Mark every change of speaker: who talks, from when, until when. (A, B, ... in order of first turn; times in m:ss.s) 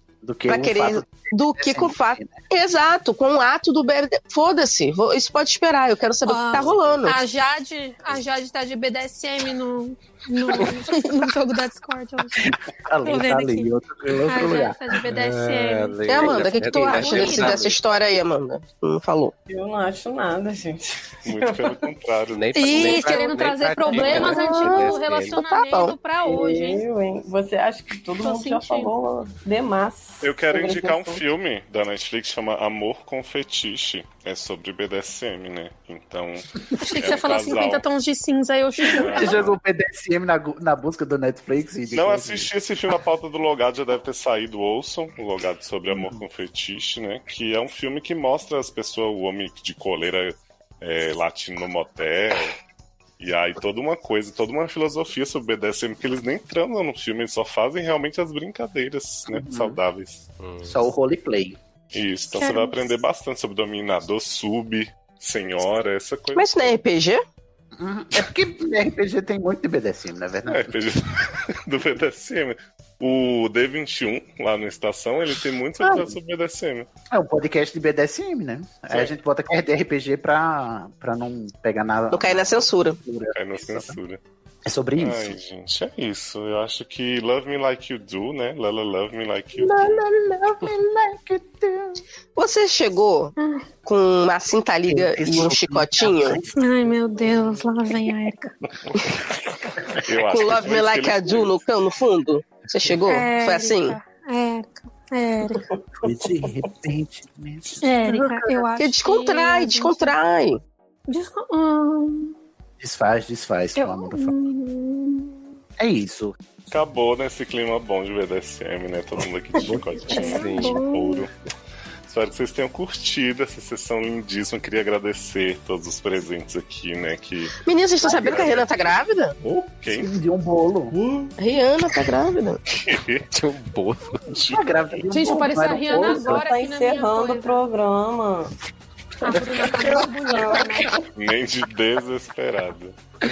0:00.2-0:02.4 A
0:00.5-0:07.2 B
0:06.2-0:12.5 C
0:06.6-0:06.9 D
0:12.4-0:15.0 A
0:13.0-0:13.7 C
0:14.2-0:17.6 C
0:15.1-0:17.8 D
0:16.1-0:19.3 B
0:19.5-0:21.8 E
0:21.2-0:23.2 F
0:22.3-0:25.4 D
0:22.5-0:26.8 C
0:24.4-0:25.9 B
0:26.2-0:31.2 E
0:28.2-0:28.9 C
0:30.2-0:37.8 F
0:36.8-0:39.4 C
0:38.8-0:39.6 F
0:39.0-0:42.5 A
0:41.9-0:52.6 F
0:45.9-0:46.2 A
0:53.2-1:00.3 F
0:59.3-0:59.8 A
1:00.4-1:00.7 D
1:00.6-1:01.6 A
1:01.9-1:06.8 F
1:02.3-1:02.9 C
1:06.4-1:07.2 B
1:07.8-1:10.7 A
1:10.5-1:16.9 F
1:15.8-1:16.1 A
1:17.1-1:24.0 A
1:22.1-1:23.0 B
1:23.3-1:24.2 F
1:24.6-1:25.4 A
1:25.0-1:30.0 F
1:29.6-1:32.0 A
1:32.4-1:36.4 B
1:33.4-1:33.6 C
1:34.9-1:36.5 A
1:36.6-1:38.5 C
1:40.0-1:41.6 F
1:40.3-1:44.0 B
1:43.1-1:45.6 C
1:46.0-1:48.6 A
1:47.8-1:50.1 C
1:48.8-1:50.6 B
1:51.1-1:52.3 C
1:52.8-1:54.3 A
1:53.8-1:55.4 C
1:55.8-1:56.4 A
1:56.7-2:01.3 F
1:59.6-2:00.0 A
2:00.1-2:01.2 C
2:00.2-2:00.8 D
2:02.1-2:10.1 F
2:07.6-2:09.4 B
2:09.8-2:11.0 A
2:11.4-2:12.6 B
2:12.7-2:13.2 F
2:13.3-2:14.3 D
2:14.3-2:14.8 F
2:14.5-2:16.4 A
2:15.1-2:17.5 C
2:15.7-2:18.5 E
2:19.2-2:20.9 C
2:19.3-2:20.4 A
2:19.8-2:21.0 E
2:21.1-2:23.0 F